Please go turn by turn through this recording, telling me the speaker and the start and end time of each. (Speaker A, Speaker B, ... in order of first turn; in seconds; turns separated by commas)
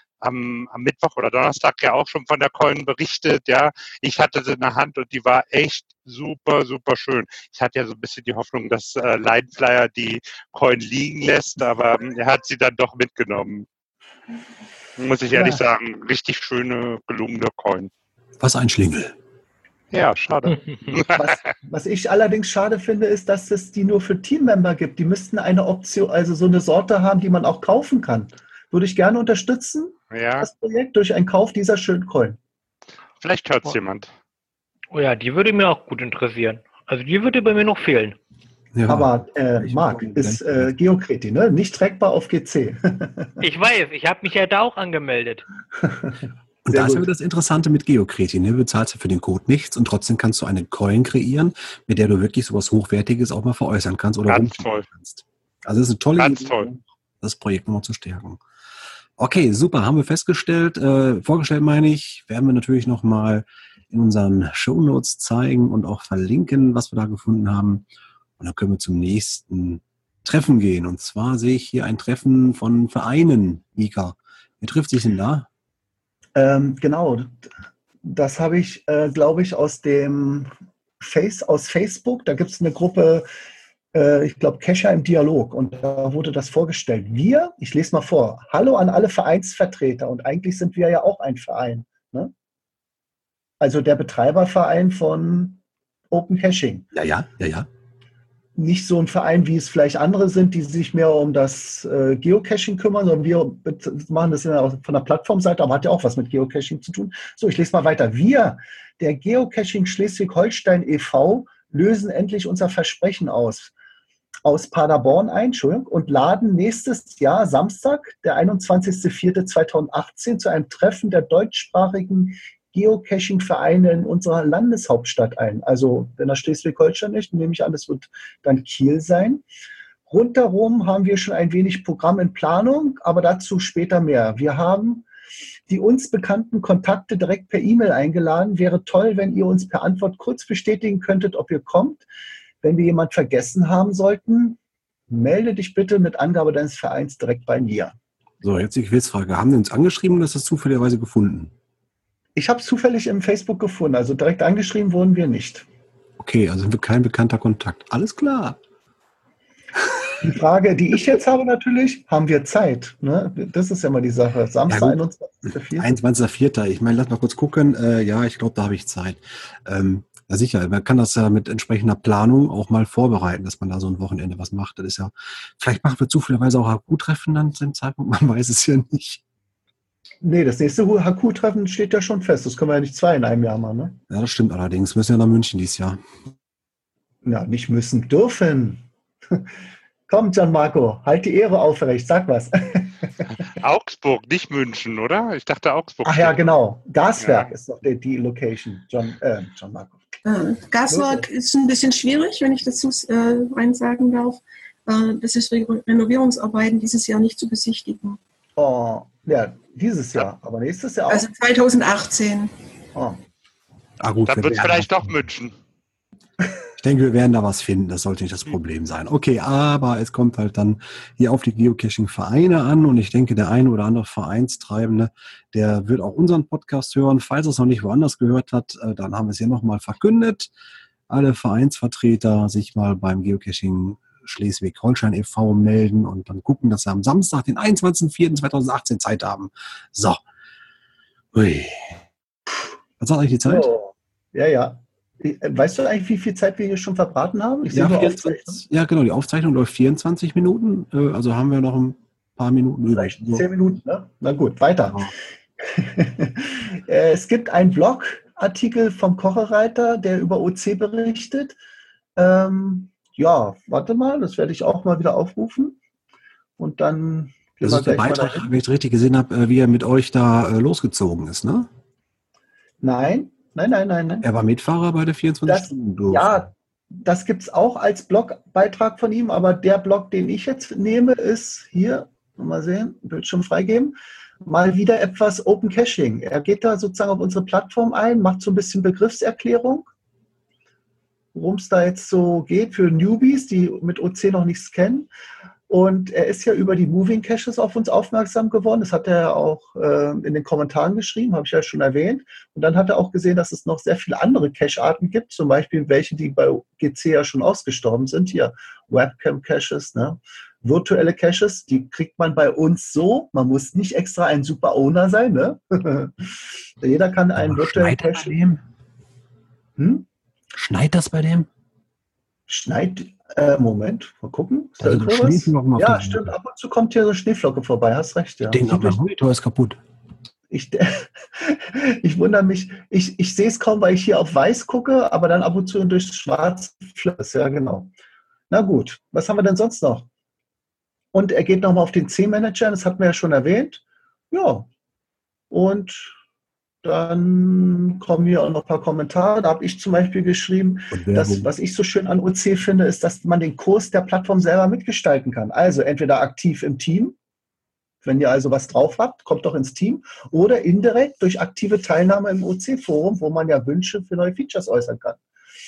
Speaker A: 0.2-13.7, Speaker A: 15.0-17.9, Speaker B: 15.3-15.6, Speaker C: 18.4-19.1, Speaker A: 19.9-21.4, Speaker B: 20.9-32.4, Speaker A: 30.1-30.5, Speaker A: 33.2-34.1, Speaker D: 34.9-38.2, Speaker C: 38.7-40.7, Speaker B: 38.9-43.3, Speaker D: 43.4-45.5, Speaker B: 45.8-47.1, Speaker C: 46.6-58.4, Speaker A: 54.3-54.8, Speaker A: 56.2-56.7, Speaker C: 59.2-67.8, Speaker C: 68.4-75.5, Speaker B: 76.3-77.5, Speaker B: 78.0-80.5, Speaker B: 81.0-83.3, Speaker B: 83.9-92.3, Speaker B: 93.6-96.9, Speaker C: 96.9-97.7, Speaker B: 98.6-113.7, Speaker B: 114.4-129.4, Speaker B: 130.1-135.0, Speaker B: 135.7-142.0, Speaker B: 142.6-144.6, Speaker B: 145.1-147.9, Speaker C: 148.4-151.5, Speaker B: 152.3-155.7, Speaker C: 156.2-158.6, Speaker B: 160.2-165.9, Speaker C: 164.7-165.0, Speaker C: 165.8-179.2, Speaker B: 180.2-184.0, Speaker C: 184.1-186.0, Speaker B: 187.2-189.4, Speaker B: 190.1-193.2, Speaker A: 193.6-196.4, Speaker B: 196.0-200.0, Speaker A: 197.2-197.5, Speaker E: 200.2-208.2, Speaker B: 200.9-201.3, Speaker B: 208.6-211.3, Speaker E: 211.1-212.5, Speaker C: 214.0-215.1, Speaker A: 214.2-215.5, Speaker C: 216.8-230.5, Speaker C: 231.1-240.2, Speaker C: 241.3-242.0, Speaker C: 243.0-243.7, Speaker B: 243.4-248.6, Speaker C: 247.7-253.5, Speaker B: 252.9-261.6, Speaker C: 254.8-255.1, Speaker B: 262.2-265.8, Speaker B: 266.6-268.5, Speaker C: 267.6-271.7, Speaker B: 272.8-274.2, Speaker C: 274.2-276.5, Speaker B: 275.4-289.9, Speaker B: 291.3-295.1, Speaker B: 295.7-318.3, Speaker C: 317.4-318.6, Speaker B: 319.8-320.1, Speaker C: 320.5-321.5, Speaker B: 322.5-329.0, Speaker C: 324.8-326.3, Speaker C: 328.5-329.8, Speaker B: 330.5-337.9, Speaker B: 338.5-340.1, Speaker B: 341.1-344.7, Speaker B: 345.5-346.1, Speaker B: 346.8-357.1, Speaker C: 350.9-351.5, Speaker B: 358.0-365.2